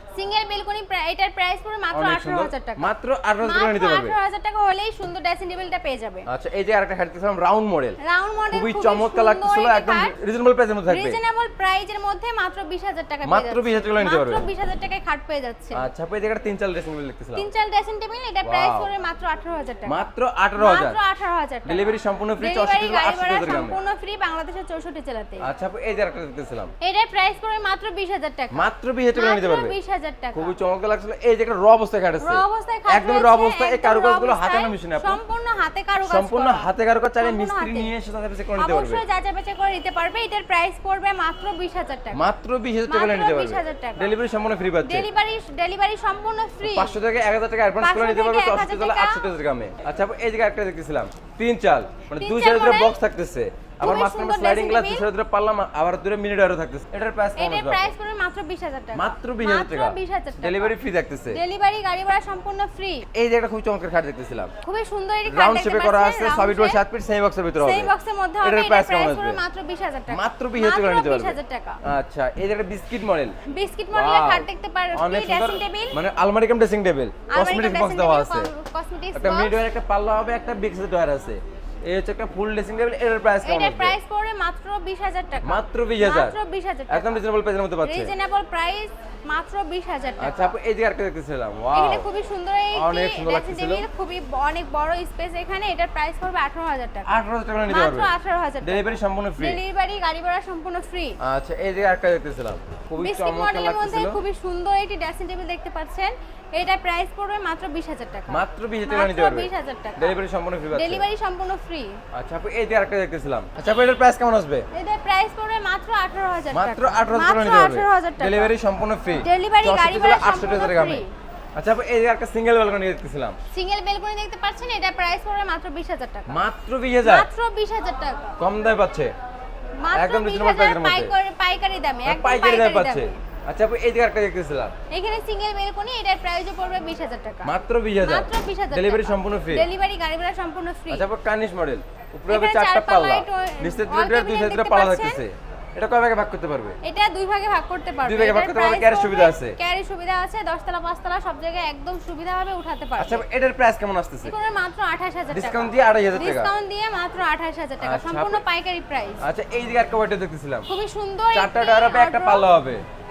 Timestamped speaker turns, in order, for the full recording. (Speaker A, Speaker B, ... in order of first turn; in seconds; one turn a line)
Speaker A: 0.1-6.3
Speaker B: 1.9-4.2
Speaker B: 6.3-8.0
Speaker A: 8.0-10.1
Speaker B: 8.5-11.2
Speaker A: 10.9-15.8
Speaker B: 13.2-14.4
Speaker B: 15.7-17.5
Speaker A: 17.3-25.5
Speaker B: 18.4-18.9
Speaker B: 19.9-21.0
Speaker B: 21.6-23.8
Speaker B: 25.4-26.7
Speaker A: 26.8-30.6
Speaker B: 28.5-29.8
Speaker B: 30.3-35.2
Speaker A: 32.2-37.9
Speaker B: 36.0-39.0
Speaker A: 38.6-42.2
Speaker B: 42.1-45.1
Speaker A: 42.9-44.1
Speaker A: 44.8-47.0
Speaker B: 46.6-57.9
Speaker A: 47.8-49.2
Speaker A: 52.2-52.9
Speaker A: 53.8-55.1
Speaker A: 57.4-60.7
Speaker B: 58.9-61.4
Speaker A: 61.3-63.1
Speaker B: 63.1-64.5
Speaker A: 64.6-66.8
Speaker B: 65.3-69.4
Speaker A: 67.6-71.8
Speaker B: 70.1-73.3
Speaker A: 73.5-76.0
Speaker B: 73.9-78.5
Speaker A: 77.3-79.6
Speaker B: 79.1-84.0
Speaker A: 83.4-87.2
Speaker B: 85.4-86.4
Speaker B: 86.9-88.1
Speaker A: 87.8-90.5
Speaker B: 90.2-92.1
Speaker A: 91.7-97.1
Speaker B: 92.7-93.8
Speaker B: 97.0-99.6
Speaker A: 97.7-101.2
Speaker B: 101.2-104.2
Speaker A: 103.0-110.2
Speaker B: 108.3-111.1
Speaker A: 110.7-112.0
Speaker B: 112.1-114.7
Speaker A: 114.7-118.5
Speaker B: 116.5-121.0
Speaker A: 119.2-121.1
Speaker B: 121.5-123.4
Speaker A: 123.5-126.4
Speaker B: 126.3-127.3
Speaker A: 127.0-128.4
Speaker B: 128.4-129.1
Speaker A: 129.8-133.2
Speaker B: 129.9-131.2
Speaker B: 132.0-134.7
Speaker A: 134.9-141.1
Speaker B: 137.4-139.7
Speaker B: 140.9-146.8
Speaker A: 142.3-145.2
Speaker A: 146.8-153.2
Speaker B: 148.0-149.6
Speaker B: 153.0-154.3
Speaker A: 154.2-159.2
Speaker B: 155.3-156.5
Speaker B: 157.8-158.4
Speaker B: 159.2-160.7
Speaker A: 160.7-162.5
Speaker B: 161.3-162.8